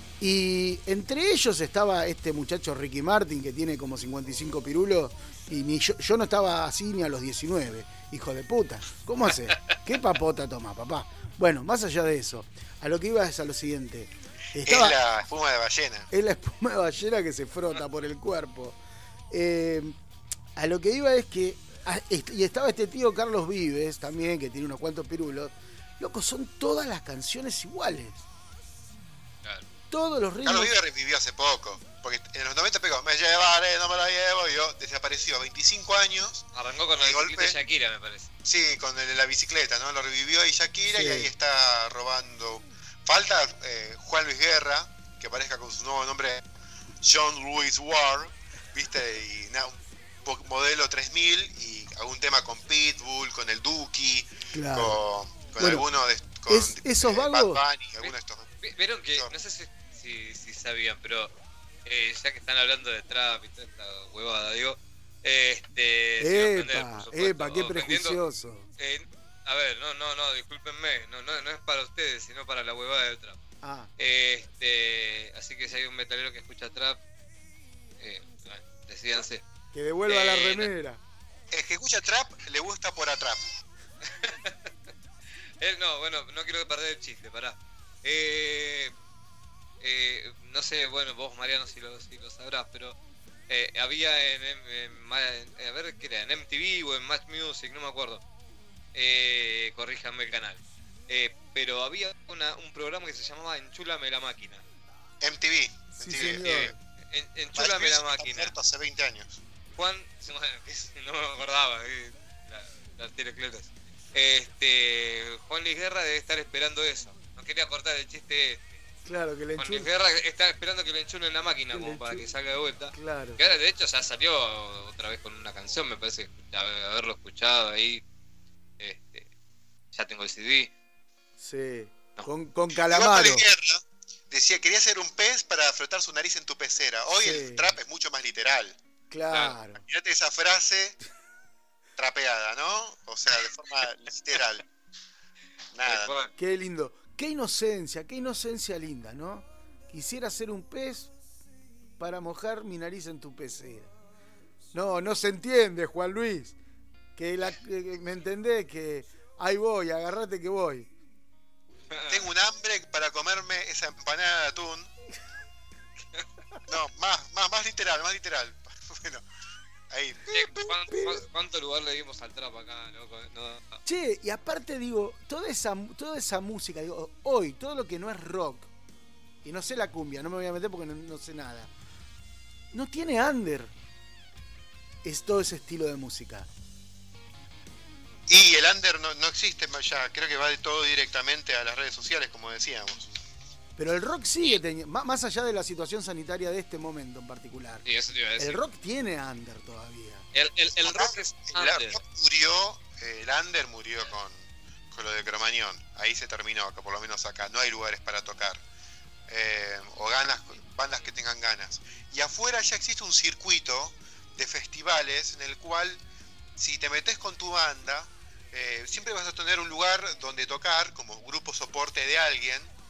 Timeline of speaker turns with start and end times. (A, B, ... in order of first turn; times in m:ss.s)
0:00.2-0:14.9 A
0:14.6-0:16.1 B
0:16.1-0:18.8 A
0:19.3-0:20.0 A
0:20.6-0:28.2 A
0:29.9-0:30.7 A
0:30.4-0:37.6 B
0:36.5-0:38.3 C
0:38.4-0:46.4 B
0:40.9-0:41.3 A
0:47.0-0:58.5 B
0:54.5-0:55.0 A
0:56.5-0:57.6 A
0:58.0-1:01.3 C
1:01.8-1:08.2 C
1:06.2-1:08.7 A
1:08.8-1:13.4 C
1:13.6-1:13.9 A
1:14.0-1:17.0 C
1:18.0-1:19.4 C
1:19.7-1:21.0 A
1:20.1-1:20.7 C
1:21.5-1:23.4 B
1:24.0-1:24.7 C
1:25.6-1:28.9 C
1:29.8-1:33.0 C
1:33.5-1:38.2 C
1:38.9-1:44.6 C
1:45.2-1:46.7 B
1:46.0-1:46.7 A
1:46.2-1:48.5 C
1:47.6-1:49.4 B
1:49.7-1:58.7 C
1:59.0-1:59.9 A
1:59.6-2:08.0 C
2:01.7-2:02.3 A
2:02.9-2:03.4 A
2:08.8-2:09.3 C
2:09.9-2:10.7 C
2:11.4-2:13.4 A
2:12.8-2:18.8 B
2:17.2-2:17.7 A
2:19.1-2:19.8 A
2:19.7-2:21.0 B
2:22.0-2:24.6 B
2:25.7-2:26.2 B
2:25.9-2:26.3 C
2:26.4-2:31.1 A
2:32.0-2:33.9 A
2:34.7-2:36.6 A
2:37.2-2:40.9 A
2:41.9-2:42.3 C
2:42.1-2:44.9 B
2:46.7-2:49.2 B
2:49.9-2:50.8 B
2:50.3-2:53.8 C
2:50.9-2:51.2 A
2:53.8-2:58.7 A
2:59.4-3:01.7 A
3:02.7-3:03.7 A
3:05.0-3:06.5 A
3:08.3-3:13.1 B
3:13.8-3:17.8 A
3:17.8-3:18.6 C
3:18.4-3:20.2 A
3:20.3-3:22.0 C
3:20.8-3:24.4 B
3:24.9-3:28.6 B
3:29.3-3:36.0 B
3:36.6-3:42.7 B